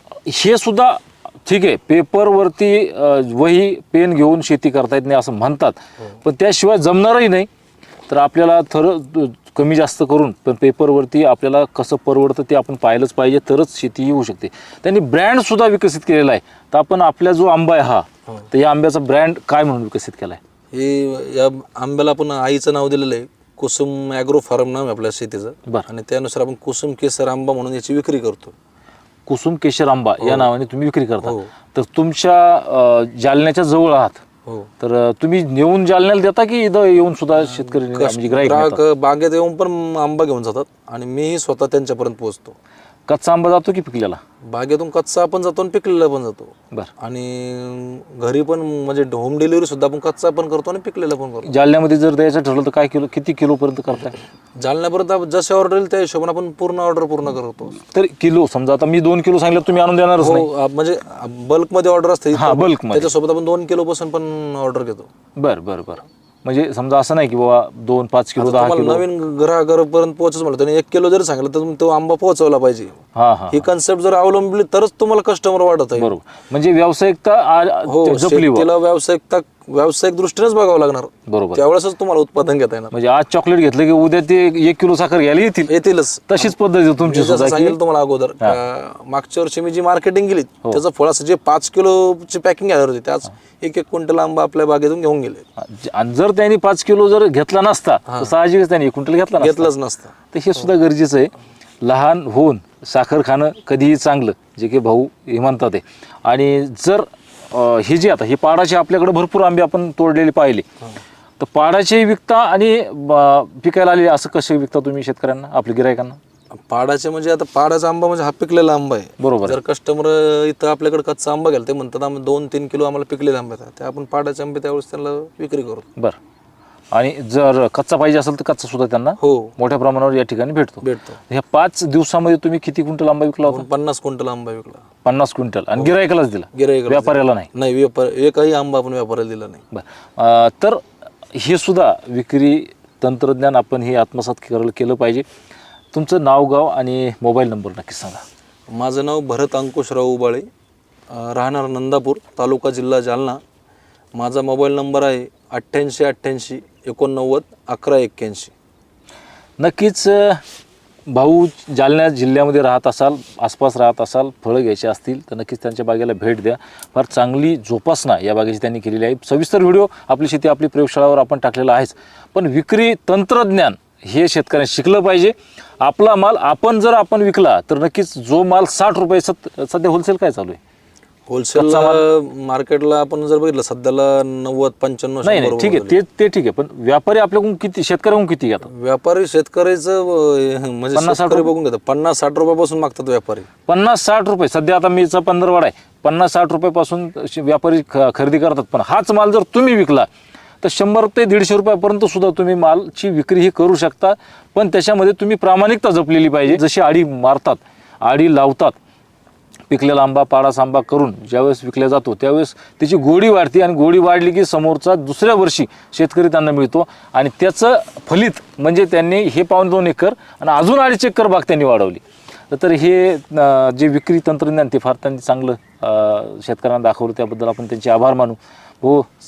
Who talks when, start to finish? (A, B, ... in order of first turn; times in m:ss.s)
0:00.2-0:07.5 A
0:08.1-0:20.4 A
0:20.7-0:28.5 B
0:29.3-0:34.2 A
0:30.2-0:30.5 B
0:31.2-0:31.5 B
0:34.8-0:38.8 A
0:37.4-0:42.6 B
0:43.1-0:44.2 A
0:44.4-0:51.5 B
0:51.4-0:54.2 A
0:54.6-0:57.8 B
0:57.9-1:00.5 A
1:00.2-1:05.1 B
1:02.3-1:03.1 A
1:05.4-1:09.0 A
1:08.4-1:13.0 B
1:13.2-1:13.6 A
1:13.5-1:16.1 B
1:16.0-1:18.7 A
1:17.8-1:22.9 B
1:21.3-1:21.6 A
1:22.9-1:25.7 A
1:25.7-1:35.4 B
1:26.3-1:27.8 A
1:35.6-1:39.7 A
1:39.4-1:40.1 B
1:40.3-1:50.7 A
1:51.4-1:56.2 A
1:56.6-2:05.9 B
1:59.2-1:59.6 A
2:06.9-2:13.6 A
2:09.2-2:09.5 B
2:10.8-2:11.2 B
2:13.5-2:14.8 B
2:15.0-2:17.5 A
2:16.5-2:19.6 B
2:19.7-2:20.8 A
2:21.3-2:25.3 A
2:25.9-2:28.2 A
2:28.7-2:30.5 B
2:31.1-2:33.4 B
2:34.1-2:38.5 B
2:39.6-2:40.4 A
2:41.1-3:00.6 A
3:01.3-3:06.0 B
3:01.5-3:02.0 A
3:05.2-3:08.7 A
3:08.7-3:13.5 B
3:10.9-3:11.5 A
3:13.7-3:20.1 A
3:20.6-3:28.8 A
3:29.7-3:49.1 A